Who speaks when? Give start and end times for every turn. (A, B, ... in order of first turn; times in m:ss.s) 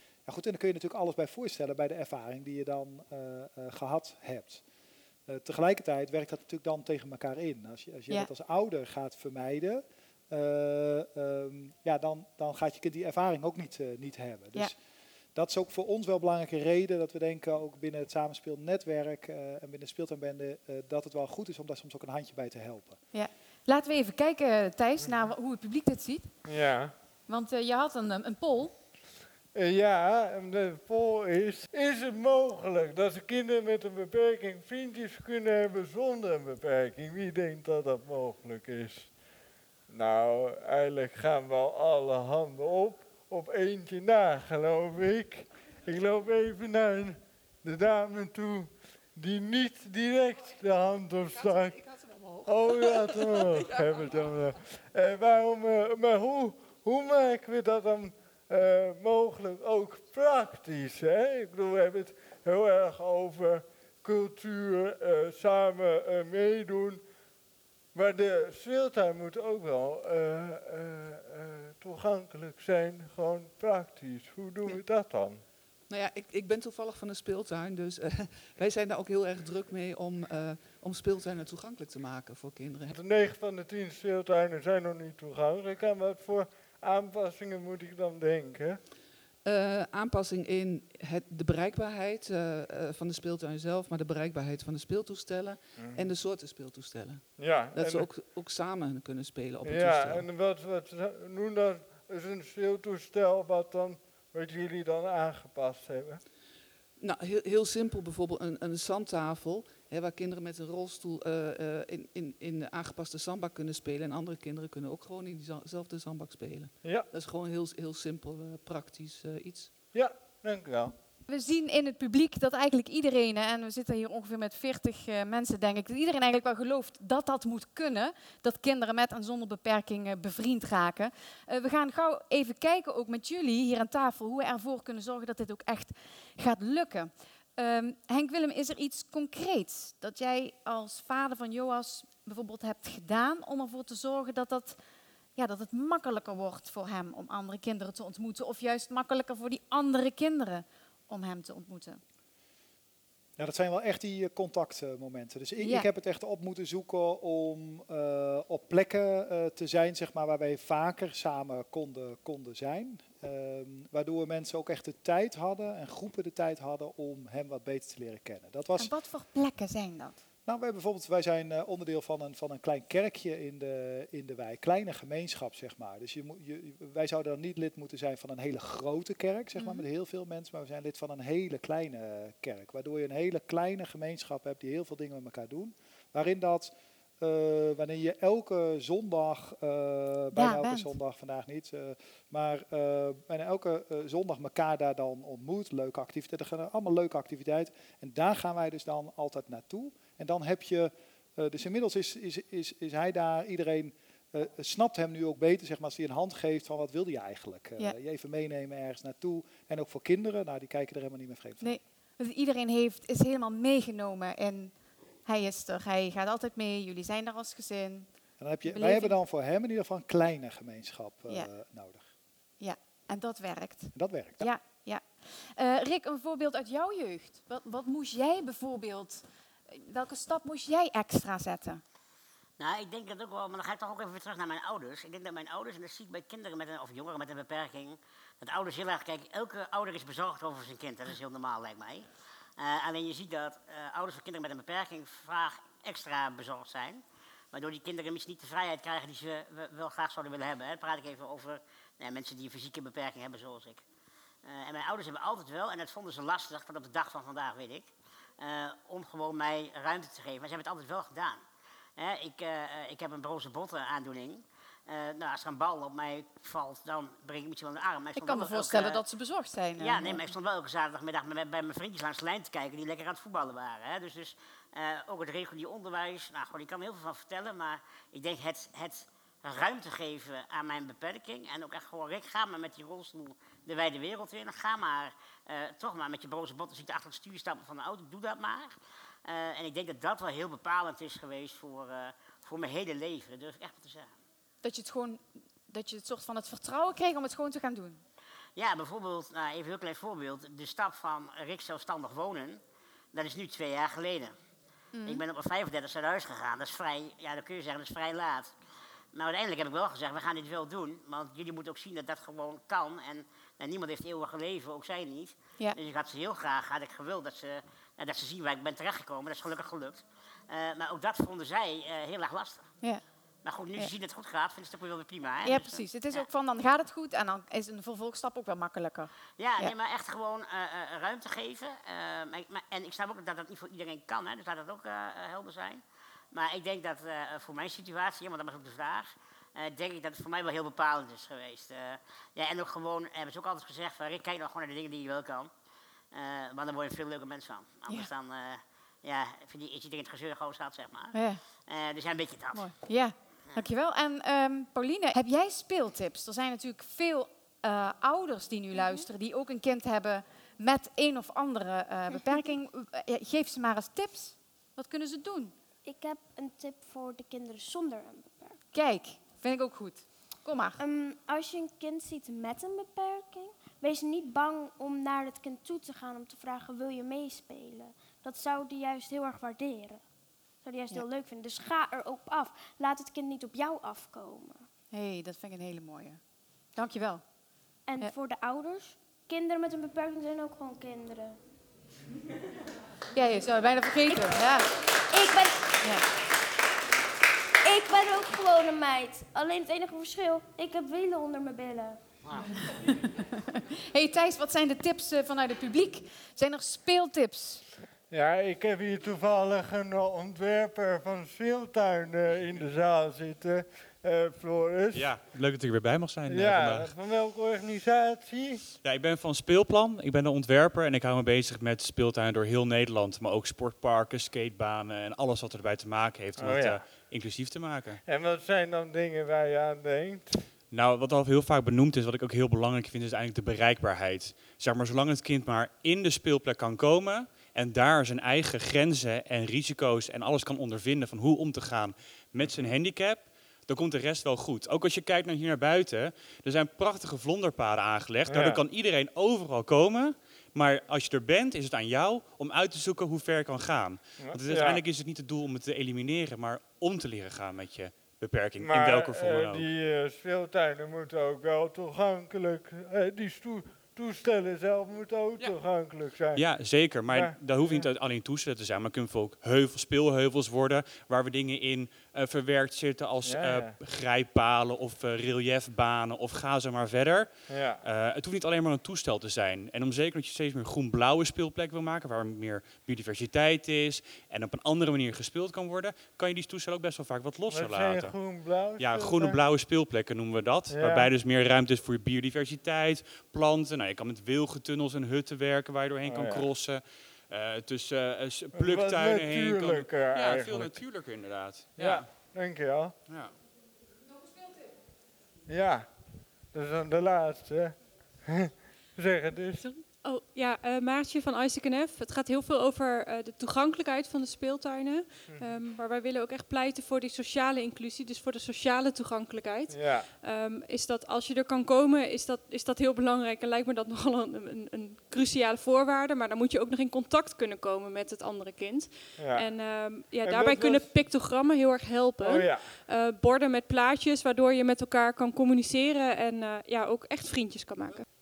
0:00.2-0:04.6 A
0:05.3-0:14.8 A
0:15.3-0:23.0 A
0:23.1-0:26.5 B
0:26.4-0:26.9 C
0:27.3-0:28.7 B
0:29.5-0:39.1 C
0:39.9-0:51.9 C
0:51.4-0:54.1 D
0:52.4-1:07.0 C
1:07.9-1:15.4 C
1:15.9-1:22.9 D
1:22.9-1:28.8 C
1:29.4-1:40.3 D
1:35.8-1:36.0 C
1:37.4-1:38.1 C
1:39.6-1:46.2 C
1:47.0-1:59.9 D
1:56.8-1:57.1 C
1:59.9-2:00.9 C
2:01.3-2:24.8 B
2:25.4-2:32.0 B
2:33.4-2:48.9 A
2:35.6-2:35.9 B
2:48.8-2:50.2 B
2:50.4-3:31.8 A
2:59.6-2:59.8 B
3:10.3-3:10.9 B
3:31.6-3:38.1 B
3:38.4-3:42.1 A
3:38.6-3:39.2 B
3:42.6-3:51.8 B
3:43.9-3:44.5 A
3:52.6-4:02.1 E
4:02.6-4:07.0 E
4:07.5-4:13.8 E
4:14.4-4:17.9 E
4:18.4-4:21.4 E
4:22.0-4:29.0 E
4:28.2-4:30.2 B
4:29.8-4:48.7 E
4:49.2-4:54.1 E
4:54.6-4:58.0 B
4:58.6-5:02.6 E
5:03.1-5:04.3 E
5:04.9-5:05.2 B
5:05.0-5:08.5 E
5:09.1-5:22.7 E
5:23.4-5:26.2 E
5:25.4-5:29.7 B
5:29.4-5:35.8 E
5:36.3-5:45.5 E
5:46.1-5:51.1 E
5:51.1-5:51.4 B
5:51.7-5:52.7 E
5:52.5-6:05.5 B
6:05.8-6:08.6 F
6:08.7-6:10.8 B
6:10.8-6:20.0 F
6:20.6-6:24.6 F
6:24.9-6:26.2 B
6:26.8-6:27.2 B
6:27.9-6:31.4 F
6:33.1-6:34.7 B
6:34.1-6:34.6 F
6:35.1-6:35.8 F
6:37.6-6:42.0 F
6:42.7-6:47.6 B
6:48.1-6:55.2 C
6:54.9-6:56.9 G
6:56.3-6:58.6 C
6:58.8-7:08.0 G
7:06.4-7:06.9 C
7:08.0-7:10.5 C
7:10.7-7:39.6 G
7:22.4-7:22.7 C
7:28.3-7:28.6 C
7:34.2-7:34.8 C
7:38.6-7:46.4 C
7:45.4-7:45.8 G
7:46.3-8:08.2 G
7:47.0-7:47.9 C
7:53.2-7:53.8 C
7:57.5-7:57.8 C
8:07.5-8:09.4 C
8:08.8-8:22.1 G
8:10.7-8:11.1 C
8:16.0-8:16.5 C
8:18.5-8:20.8 C
8:21.7-8:23.0 C
8:23.1-8:23.4 G
8:25.5-8:26.0 C
8:26.5-8:29.7 C
8:29.6-8:58.1 H
8:39.7-8:40.1 C
8:49.2-8:49.4 C
8:50.2-8:50.9 C
8:52.2-8:52.8 C